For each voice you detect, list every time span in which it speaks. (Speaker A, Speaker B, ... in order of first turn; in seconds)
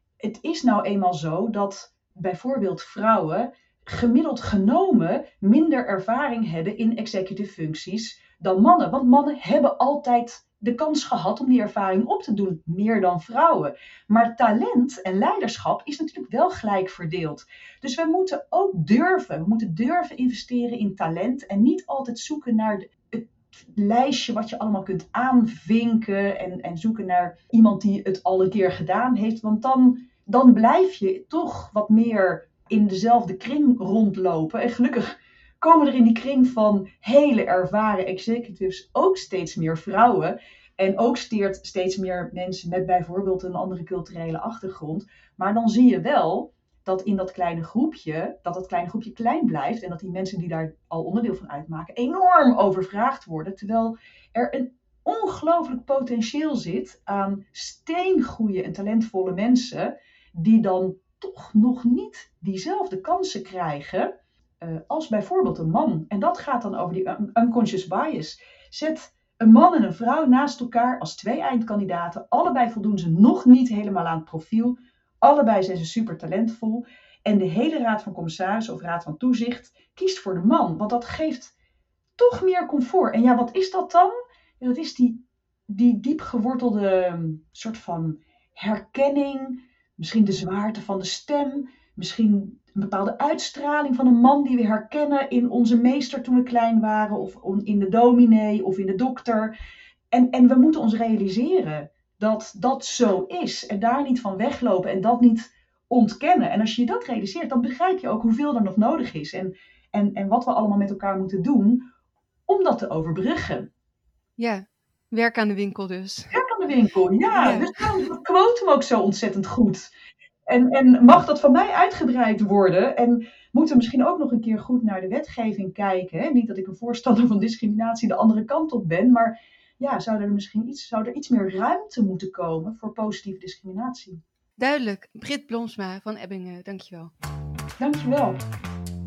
Speaker A: 0.2-81.5, 82.2-99.5, 100.1-111.9, 112.5-113.7, 116.3-119.9, 120.5-134.2, 137.8-138.4
Speaker B: 114.4-116.3, 117.3-117.7, 134.6-137.1